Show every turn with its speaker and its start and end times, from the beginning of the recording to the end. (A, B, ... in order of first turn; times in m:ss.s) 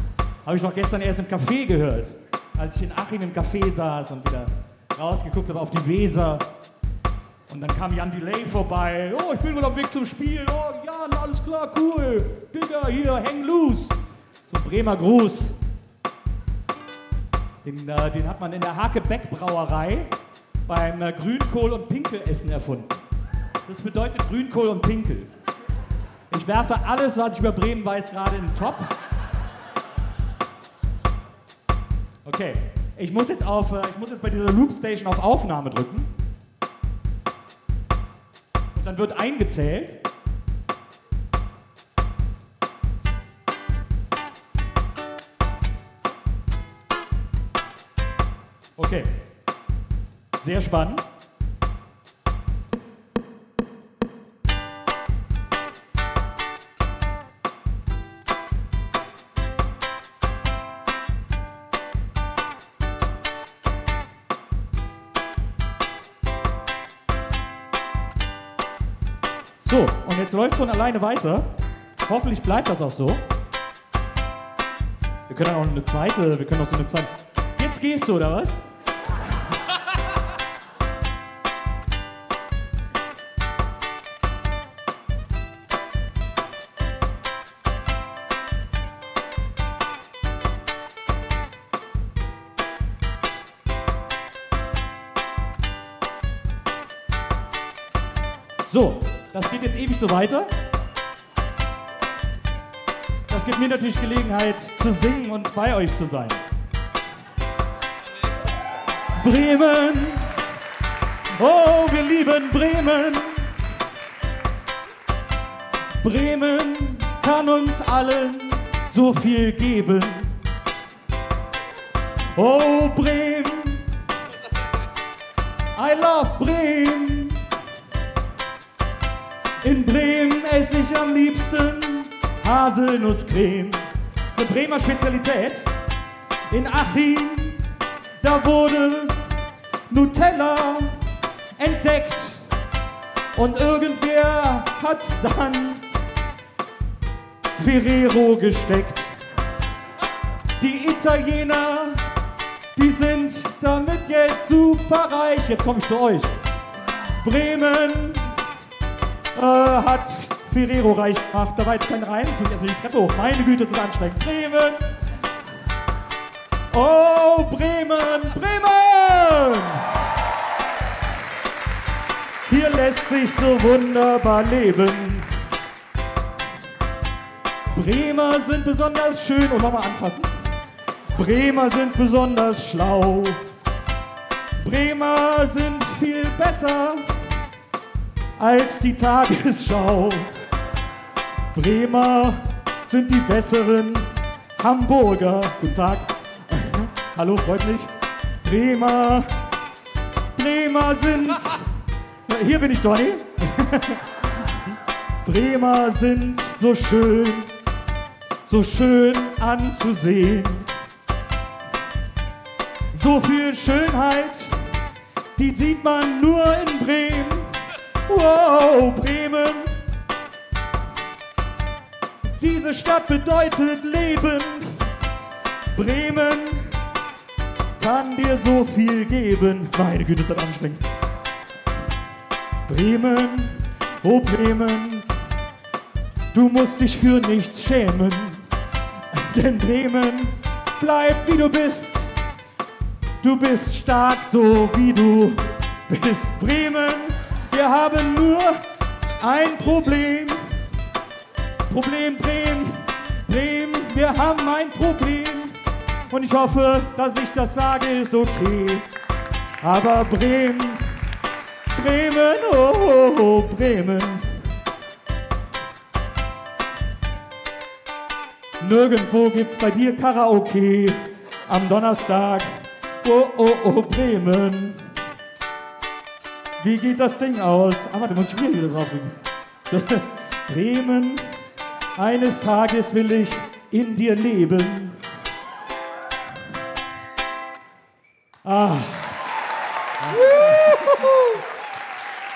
0:00.4-0:06.5 A
0:07.5-0:14.0 A
0:14.5-0:15.6 A
0:17.6-0:20.1 A
0:20.7-0:23.0 A
0:23.7-0:25.3 A
0:26.3-0:29.0 A
0:32.2-0:36.1 A
0:38.8-0:40.0 A
0:48.8-0:49.2 A
0:50.4-0:51.1 A
1:09.6-1:11.5 A
1:12.0-1:13.3 A
1:15.3-1:18.6 A
1:38.6-1:40.5 A
1:43.3-1:46.4 A
1:49.2-1:50.3 A
1:51.4-1:53.5 A
1:56.0-2:00.3 A
2:02.4-2:03.9 A
2:05.7-2:07.4 A
2:09.6-2:15.7 A
2:16.5-2:17.6 A
2:18.2-2:19.2 A
2:19.9-2:21.0 A
2:21.6-2:22.4 A
2:23.3-2:25.8 A
2:27.6-2:29.1 A
2:30.6-2:32.1 A
2:32.8-2:36.3 A
2:37.2-2:38.4 A
2:39.4-2:44.8 A
2:46.7-2:49.9 A
2:52.5-2:55.3 A
2:57.7-3:00.3 A
3:01.1-3:03.5 A
3:04.6-3:07.2 A
3:08.4-3:10.3 A
3:11.5-3:19.4 A
3:20.4-3:21.7 A
3:22.3-3:24.5 A
3:25.2-3:27.5 A
3:28.5-3:30.7 A
3:32.9-3:34.6 A
3:35.4-3:39.8 A
3:42.4-3:44.9 A
3:45.7-3:46.8 A
3:47.8-3:50.8 A
3:52.7-3:55.1 A
3:56.3-3:58.4 A
3:59.1-4:02.1 A
4:03.2-4:08.6 A
4:09.2-4:10.5 A
4:11.7-4:15.6 A
4:16.1-4:18.9 A
4:19.6-4:20.9 A
4:21.7-4:24.4 A
4:28.6-4:34.9 A
4:36.6-4:41.4 A
4:42.0-4:45.0 A
4:48.4-4:49.2 A
4:50.0-4:51.1 A